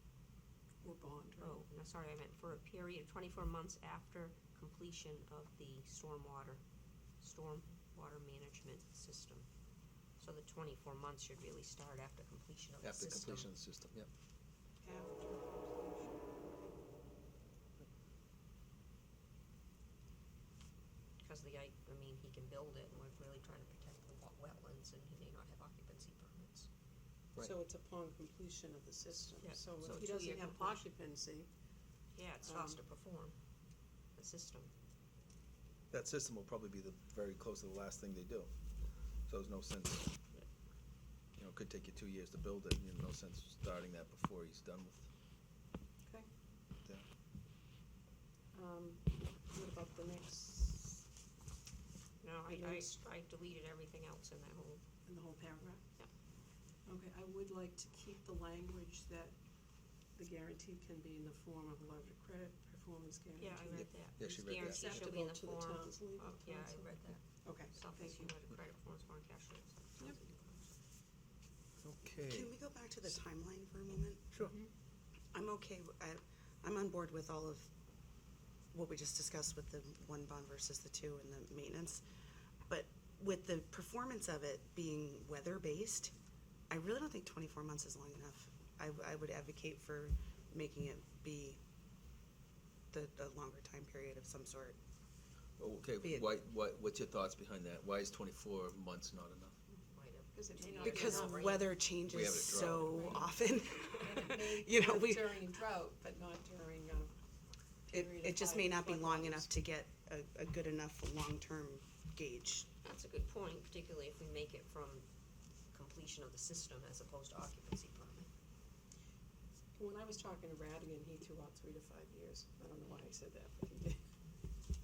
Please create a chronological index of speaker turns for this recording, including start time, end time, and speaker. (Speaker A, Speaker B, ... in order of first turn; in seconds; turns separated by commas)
Speaker A: 0.8-1.6, Speaker B: 1.4-6.6, Speaker B: 7.2-9.5, Speaker B: 10.2-13.5, Speaker C: 12.8-14.1, Speaker A: 14.8-16.3, Speaker B: 21.2-26.7, Speaker A: 27.4-31.5, Speaker B: 29.4-30.8, Speaker B: 32.1-33.4, Speaker A: 32.4-32.8, Speaker B: 34.1-34.7, Speaker C: 35.9-38.5, Speaker C: 39.3-40.1, Speaker C: 41.4-45.1, Speaker A: 48.5-51.0, Speaker B: 52.2-54.8, Speaker A: 52.5-52.9, Speaker A: 55.0-55.8, Speaker A: 56.9-59.3, Speaker A: 60.1-63.9, Speaker B: 63.4-70.7, Speaker C: 63.7-65.1, Speaker A: 64.5-68.3, Speaker C: 71.8-72.5, Speaker D: 72.3-74.3, Speaker D: 75.3-77.7, Speaker D: 78.7-82.0, Speaker D: 82.7-86.1, Speaker D: 86.7-91.6, Speaker D: 92.9-94.8, Speaker C: 95.6-99.6, Speaker D: 96.0-96.3, Speaker B: 99.9-101.7, Speaker A: 100.3-101.6, Speaker D: 100.8-105.5, Speaker C: 102.1-103.0, Speaker A: 102.3-103.4, Speaker A: 104.0-107.1, Speaker A: 107.9-109.5, Speaker D: 107.9-112.7, Speaker B: 112.8-115.1, Speaker B: 115.7-118.3, Speaker A: 119.8-124.0